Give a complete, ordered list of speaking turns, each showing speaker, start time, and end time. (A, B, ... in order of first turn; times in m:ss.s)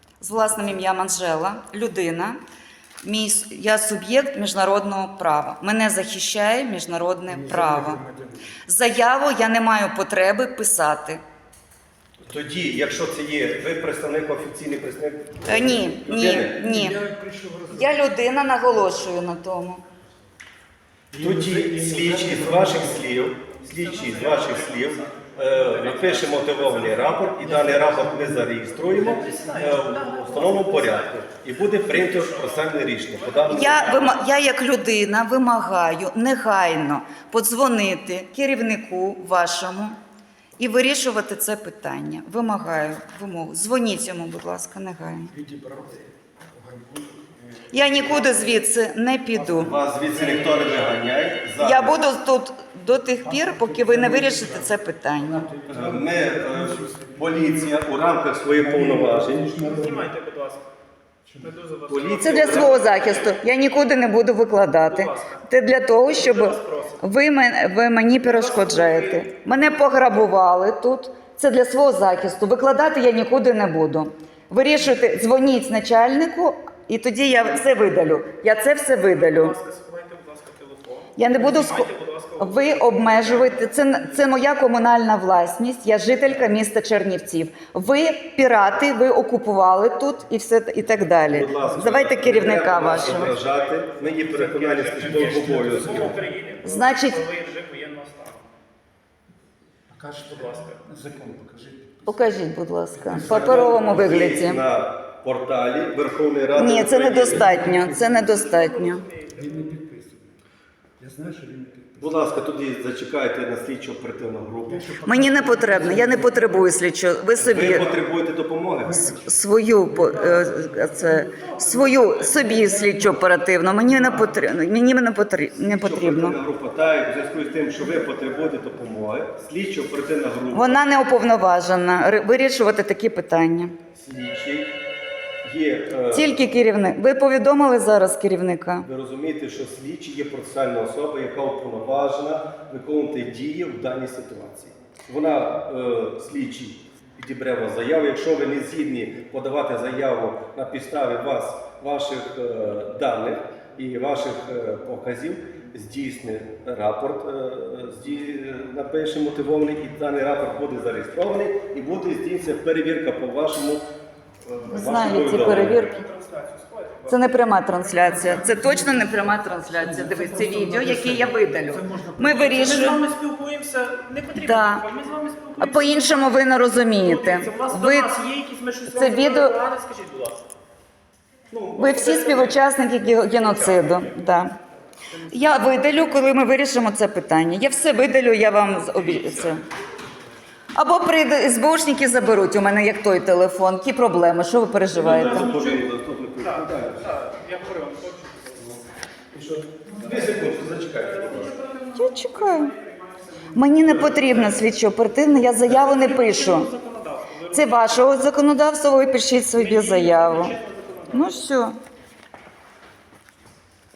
0:00.2-0:02.4 A
0:03.0-0:08.0 A
0:07.3-0:08.6 B
0:08.6-0:11.2 A
0:12.2-0:16.6 C
0:15.5-0:17.0 A
0:16.3-0:18.0 B
0:17.7-0:19.8 A
0:21.1-0:23.1 B
0:21.2-0:34.2 C
0:23.6-0:28.2 D
0:27.4-0:30.2 B
0:28.8-0:34.1 D
0:33.4-0:40.0 A
0:40.6-0:45.3 A
0:45.3-0:48.6 B
0:47.7-0:49.7 A
0:49.5-0:50.8 B
0:49.5-0:52.0 C
0:51.6-0:55.5 A
0:53.1-0:57.8 B
0:55.7-0:59.5 C
0:58.4-1:00.1 B
0:59.6-1:00.6 D
1:01.2-1:01.5 B
1:01.4-1:03.4 D
1:01.9-1:02.8 C
1:02.1-1:19.6 A
1:04.8-1:05.4 D
1:06.0-1:07.0 D
1:08.2-1:09.3 D
1:19.0-1:23.7 D
1:21.2-1:33.4 A
1:31.3-1:36.1 C
1:32.8-1:38.5 D
1:35.0-1:36.2 B
1:36.6-1:37.2 A
1:39.9-1:42.4 B
1:40.3-1:40.8 D
1:42.0-1:44.6 A
1:42.9-1:44.3 B
1:43.3-1:47.6 C
1:46.5-1:49.0 A
1:47.2-1:48.2 B
1:48.0-1:49.7 D
1:49.3-1:50.4 B
1:51.0-1:52.3 B
1:52.0-1:54.9 C
1:54.6-1:56.7 B
1:55.0-1:57.9 A
1:57.4-1:59.1 C
1:58.8-2:00.9 B
1:59.2-2:06.4 A
2:00.0-2:02.8 D
2:02.4-2:03.2 B
2:03.9-2:04.3 D
2:05.6-2:10.8 C
2:10.5-2:13.7 A
2:13.9-2:14.7 C
2:15.4-2:16.4 C
2:16.1-2:18.9 A
2:18.8-2:43.9 C
2:44.4-2:45.9 C
2:44.7-2:46.0 A
2:44.8-2:47.4 D
2:47.1-2:53.0 A
2:47.9-2:53.0 B
2:52.4-2:56.4 D
2:54.3-2:54.8 A
2:55.6-2:58.1 A
2:56.9-3:00.4 D
2:58.9-2:59.6 A
3:01.5-3:02.6 D
3:01.8-3:04.6 A
3:03.2-3:04.4 D
3:05.0-3:06.1 D
3:05.3-3:09.6 A
3:08.7-3:09.6 D
3:10.7-3:15.6 A
3:14.9-3:18.8 D
3:14.9-3:17.1 C
3:19.3-3:21.5 C
3:19.4-3:20.3 B
3:20.2-3:24.3 D
3:22.0-3:22.7 A
3:23.5-3:26.7 A
3:23.8-3:24.6 C
3:25.6-3:28.2 D
3:27.5-3:30.5 A
3:29.6-3:31.5 D
3:31.1-3:31.8 A